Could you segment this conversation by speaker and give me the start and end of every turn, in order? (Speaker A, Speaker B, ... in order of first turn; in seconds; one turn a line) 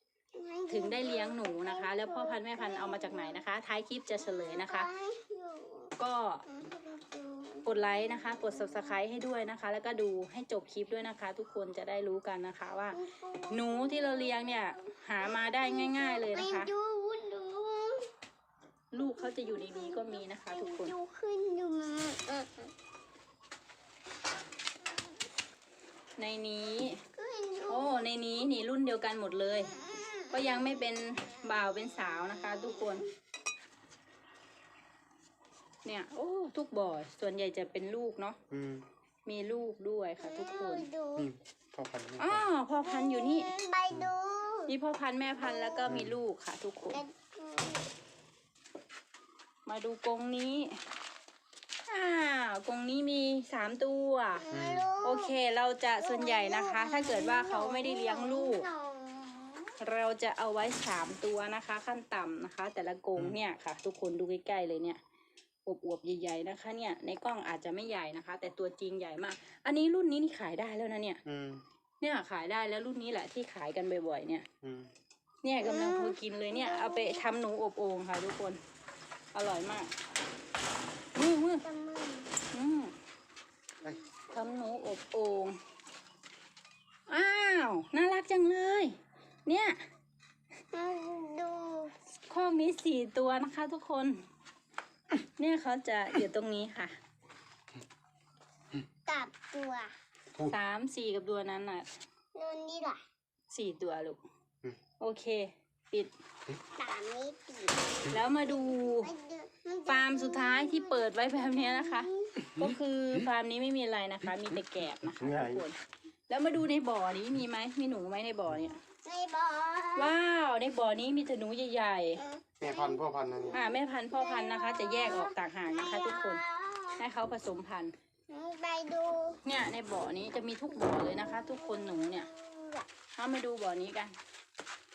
Speaker A: 0.3-3.4
Speaker B: 0.7-4.9
Speaker A: 4.2-5.9
Speaker B: 6.0-6.4
Speaker A: 6.5-7.7
Speaker B: 7.7-16.7
Speaker A: 8.2-9.0
Speaker A: 12.9-18.1
Speaker B: 18.9-20.9
Speaker A: 19.0-22.7
Speaker B: 26.2-27.0
Speaker A: 27.1-28.0
Speaker B: 27.7-29.8
Speaker A: 29.9-30.7
Speaker B: 30.3-33.1
Speaker B: 35.9-38.4
Speaker C: 38.5-38.9
Speaker B: 39.2-40.9
Speaker A: 40.2-41.3
Speaker C: 41.2-42.4
Speaker B: 42.2-43.5
Speaker A: 42.8-44.7
Speaker B: 44.7-47.0
Speaker A: 45.4-45.9
Speaker A: 46.9-47.9
Speaker B: 49.7-50.8
Speaker B: 51.9-54.5
Speaker A: 54.4-55.3
Speaker C: 54.5-54.9
Speaker B: 55.0-58.7
Speaker A: 56.0-59.8
Speaker B: 59.8-65.0
Speaker B: 65.7-71.2
Speaker C: 71.2-71.6
Speaker B: 72.0-74.5
Speaker C: 74.6-74.9
Speaker B: 75.4-78.6
Speaker A: 75.6-77.2
Speaker B: 79.3-79.9
Speaker B: 81.2-81.7
Speaker A: 81.6-82.3
Speaker B: 82.5-83.0
Speaker B: 84.3-85.6
Speaker B: 87.1-89.8
Speaker A: 90.7-91.9
Speaker B: 92.3-94.2
Speaker B: 95.2-97.0
Speaker A: 99.1-99.9
Speaker B: 100.4-101.9
Speaker A: 102.3-103.0
Speaker B: 103.5-104.2
Speaker B: 105.0-106.1
Speaker A: 106.7-112.4
Speaker B: 108.1-109.1
Speaker B: 109.9-118.8
Speaker A: 119.0-120.1
Speaker B: 120.0-122.2
Speaker A: 122.2-127.0
Speaker C: 122.6-123.5
Speaker B: 123.5-126.4
Speaker B: 127.0-127.9
Speaker A: 128.3-129.4
Speaker B: 129.4-132.3
Speaker A: 130.8-132.9
Speaker B: 133.2-134.2